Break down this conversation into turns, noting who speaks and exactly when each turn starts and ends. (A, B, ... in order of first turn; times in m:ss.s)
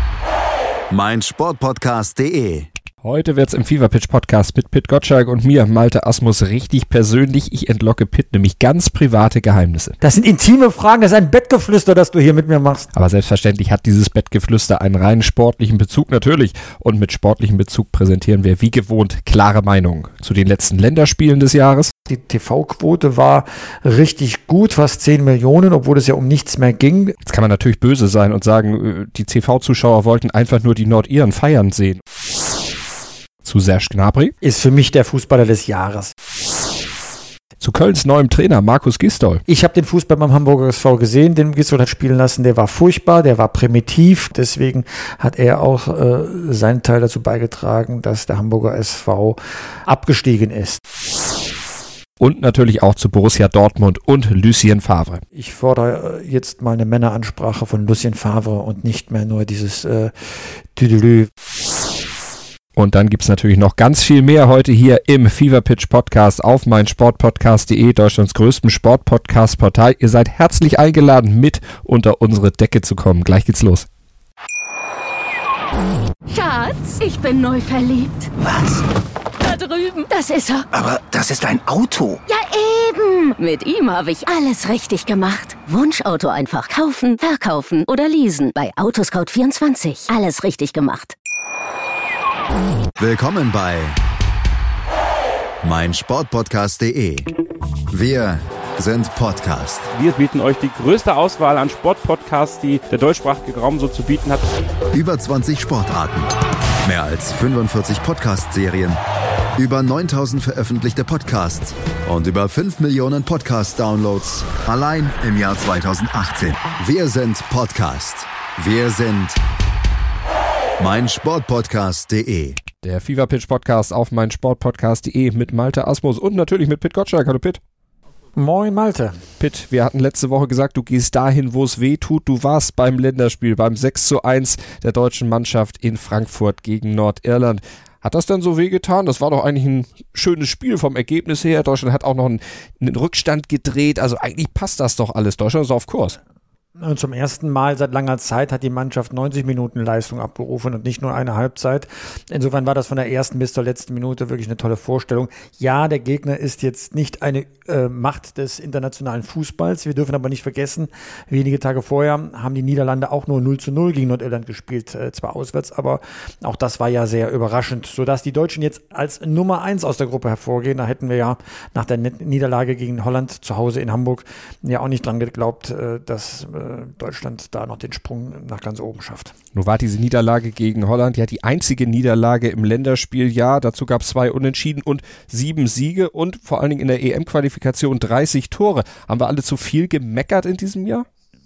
0:00.9-0:02.7 A
0:03.0-0:10.0 B
0:10.0-0:12.9 C
0:12.9-0:21.9 B
0:22.1-0:27.2 C
0:27.3-0:32.0 B
0:33.4-0:34.3 B
0:34.4-0:36.1 C
0:37.6-0:39.4 B
0:39.5-0:50.8 C
0:52.2-0:55.2 B
0:55.4-1:01.3 C
1:02.8-1:13.9 B
1:16.3-1:18.3 D
1:18.4-1:18.8 E
1:19.4-1:20.7 D
1:20.7-1:22.2 E
1:22.3-1:31.2 D
1:33.0-1:34.0 A
1:35.6-1:37.3 A
1:37.9-1:39.9 A
1:39.9-1:44.4 F
1:44.9-1:49.0 A
1:49.6-1:59.4 A
2:00.8-2:02.6 A
2:02.8-2:07.6 B
2:08.4-2:09.2 C
2:09.4-2:26.2 B
2:26.8-2:59.3 C
2:59.5-3:11.1 B